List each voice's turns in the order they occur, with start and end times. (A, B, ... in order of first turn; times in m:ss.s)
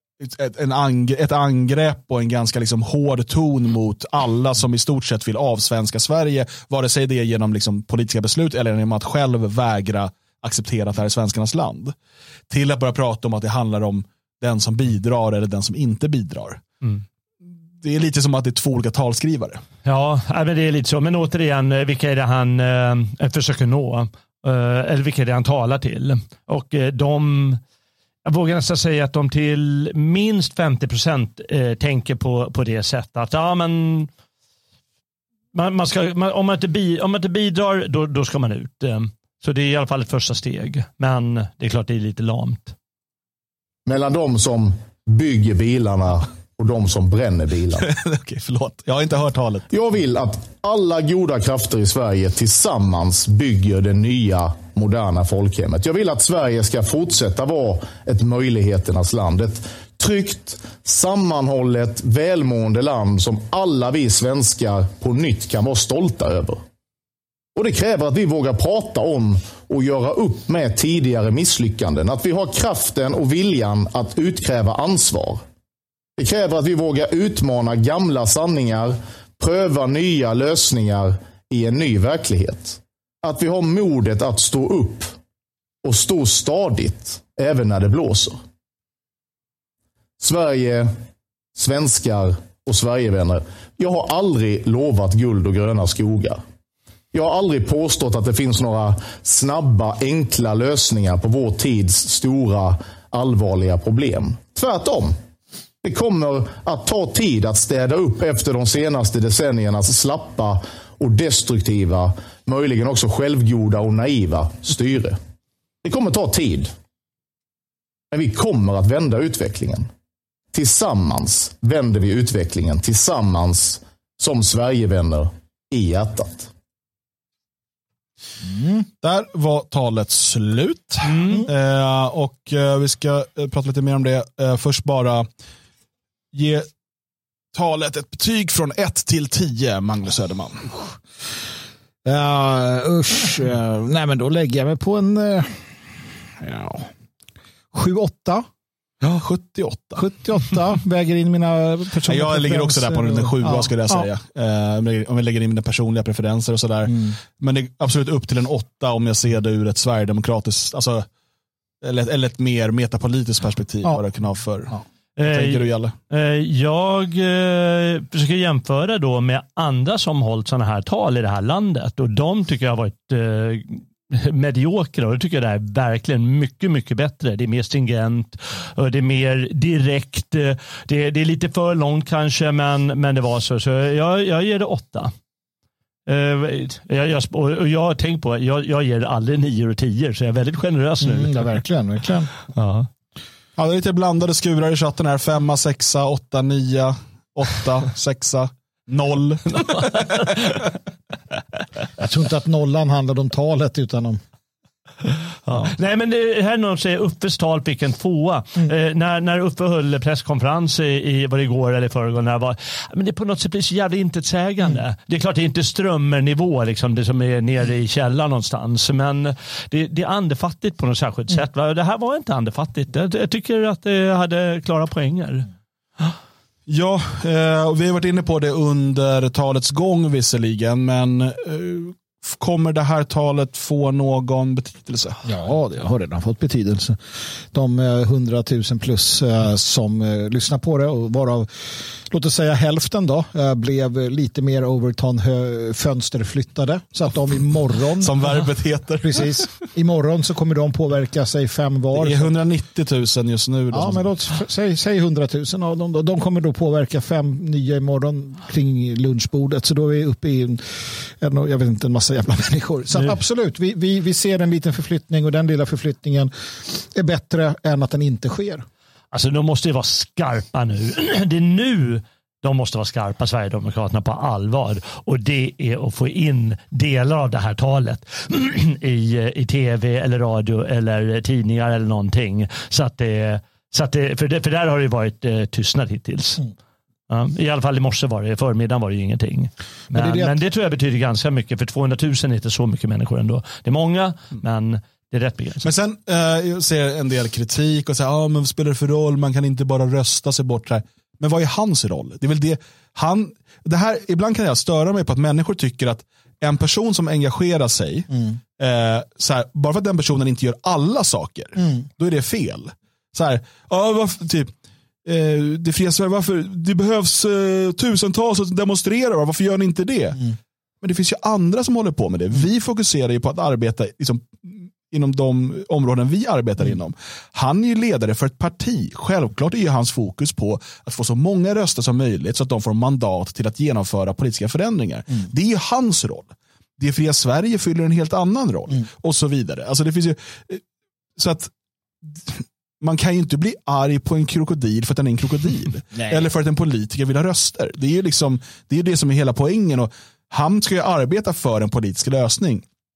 0:00.2-0:11.9 A
0:12.5-0:16.6 A
0:17.8-0:19.6 A
0:19.8-0:27.6 B
0:28.2-0:34.1 B
0:35.5-0:42.7 B
0:43.8-0:47.9 C
0:47.8-0:49.7 A
0:49.7-1:06.6 C
1:07.6-1:15.4 C
1:16.2-1:25.1 C
1:25.8-1:28.4 C
1:30.2-1:30.9 C
1:31.5-1:36.4 C
1:37.1-1:45.1 C
1:45.8-1:55.2 C
1:55.8-1:56.7 C
1:58.1-1:59.9 C
2:00.5-2:06.5 C
2:08.4-2:08.8 D
2:09.0-2:15.3 A
2:11.1-2:11.4 B
2:16.3-2:16.7 A
2:17.5-2:20.7 A
2:22.0-2:25.7 D
2:26.4-2:26.9 D
2:27.7-2:28.5 D
2:29.0-2:30.0 A
2:30.0-2:34.0 D
2:32.1-2:41.0 A
2:41.8-2:45.9 A
2:45.2-3:05.1 B
3:06.1-3:11.6 B
3:11.0-3:12.3 D
3:12.5-3:12.9 B
3:13.6-3:20.1 A
3:19.8-3:20.4 B
3:22.0-3:24.2 D
3:25.5-3:45.5 B
3:46.7-3:55.2 A
3:55.2-3:57.0 D
3:57.5-4:01.5 D
4:02.0-4:08.4 D
4:08.0-4:09.5 A
4:09.0-4:12.3 D
4:11.9-4:14.1 A
4:13.7-4:28.6 D
4:29.1-4:46.5 B
4:47.1-4:55.7 B
4:49.9-4:50.3 D
4:55.6-5:14.5 A
5:15.0-5:20.3 A
5:20.8-5:40.6 A
5:41.2-5:41.5 A
5:42.0-5:52.6 A
5:45.9-5:46.3 D